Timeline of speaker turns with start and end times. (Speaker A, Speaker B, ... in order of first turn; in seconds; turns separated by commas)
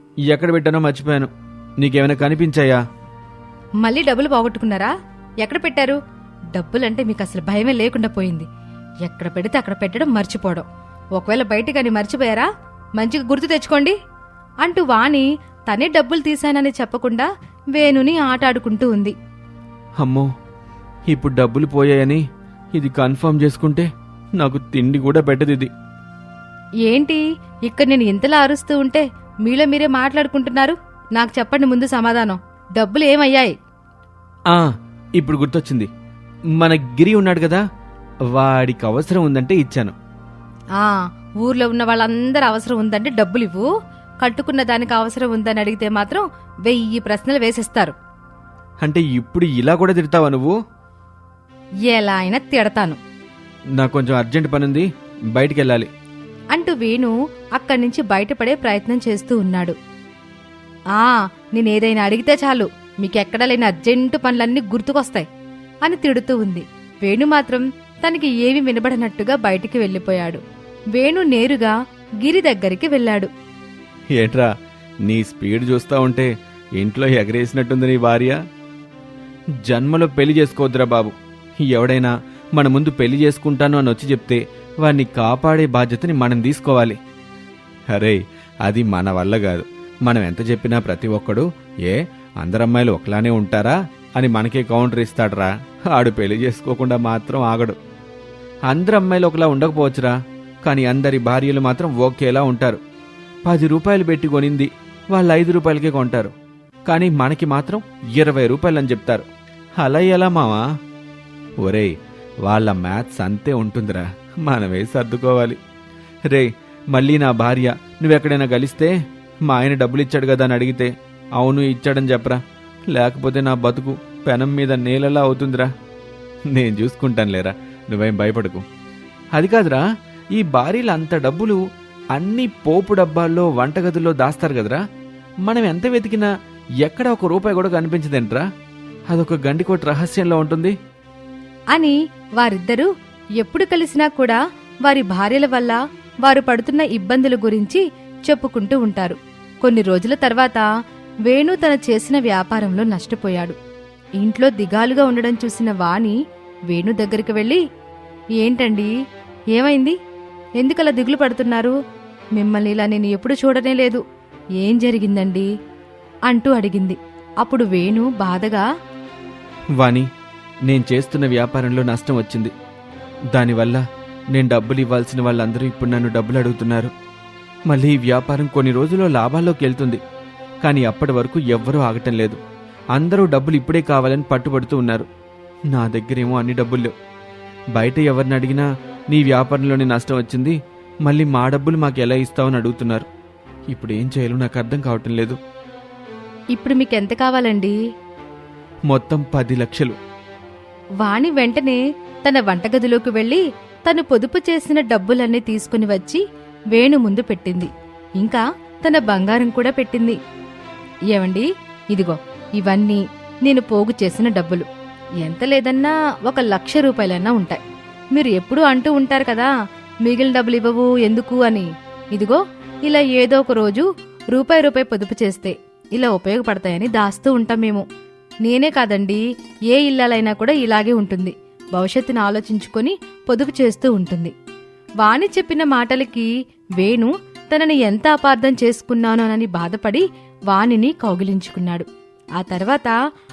Speaker A: 0.3-2.8, Speaker B: 3.8-6.0, Speaker B: 6.5-8.5, Speaker B: 9.0-10.7, Speaker B: 11.2-13.9, Speaker B: 14.6-19.1, Speaker A: 20.0-20.3, Speaker A: 21.1-22.2, Speaker A: 22.7-25.7, Speaker B: 26.8-33.5, Speaker A: 35.2-35.9, Speaker A: 36.6-37.6, Speaker A: 38.3-39.9, Speaker B: 40.8-43.7, Speaker B: 44.2-47.9, Speaker A: 48.8-50.5, Speaker B: 51.9-53.0, Speaker A: 53.8-55.9, Speaker B: 56.5-59.7, Speaker B: 60.9-65.2, Speaker B: 65.8-70.4, Speaker B: 70.9-73.3, Speaker A: 74.2-74.5, Speaker A: 75.0-78.4, Speaker A: 79.6-81.1, Speaker A: 81.6-87.0, Speaker A: 87.9-97.8, Speaker A: 98.7-102.8, Speaker A: 103.5-106.3, Speaker A: 106.9-109.2, Speaker A: 109.8-110.6, Speaker A: 111.6-111.9, Speaker A: 112.4-115.6, Speaker A: 116.3-118.9, Speaker A: 119.5-125.7, Speaker A: 126.5-128.6, Speaker A: 129.3-129.8, Speaker A: 130.3-131.6, Speaker A: 132.1-134.8, Speaker A: 135.4-136.3, Speaker A: 136.8-138.4, Speaker A: 139.1-140.7, Speaker B: 141.7-150.7, Speaker B: 151.3-153.5, Speaker B: 154.2-156.2, Speaker B: 156.7-157.6, Speaker B: 158.4-158.9, Speaker B: 159.5-159.9, Speaker B: 160.6-161.8, Speaker B: 162.3-164.0, Speaker B: 164.6-165.5, Speaker B: 166.3-168.6, Speaker A: 169.8-170.1, Speaker A: 170.7-172.5, Speaker A: 173.3-176.9, Speaker A: 177.7-180.0, Speaker A: 180.6-182.4, Speaker A: 182.9-185.1, Speaker A: 185.7-186.9, Speaker A: 187.7-193.1, Speaker A: 193.7-195.4, Speaker B: 196.5-197.8, Speaker A: 198.9-200.0, Speaker B: 201.0-210.2, Speaker B: 211.1-214.7, Speaker B: 215.2-217.6, Speaker B: 218.1-219.5, Speaker B: 220.0-227.8, Speaker B: 228.4-234.3, Speaker B: 235.0-241.8, Speaker B: 242.4-242.9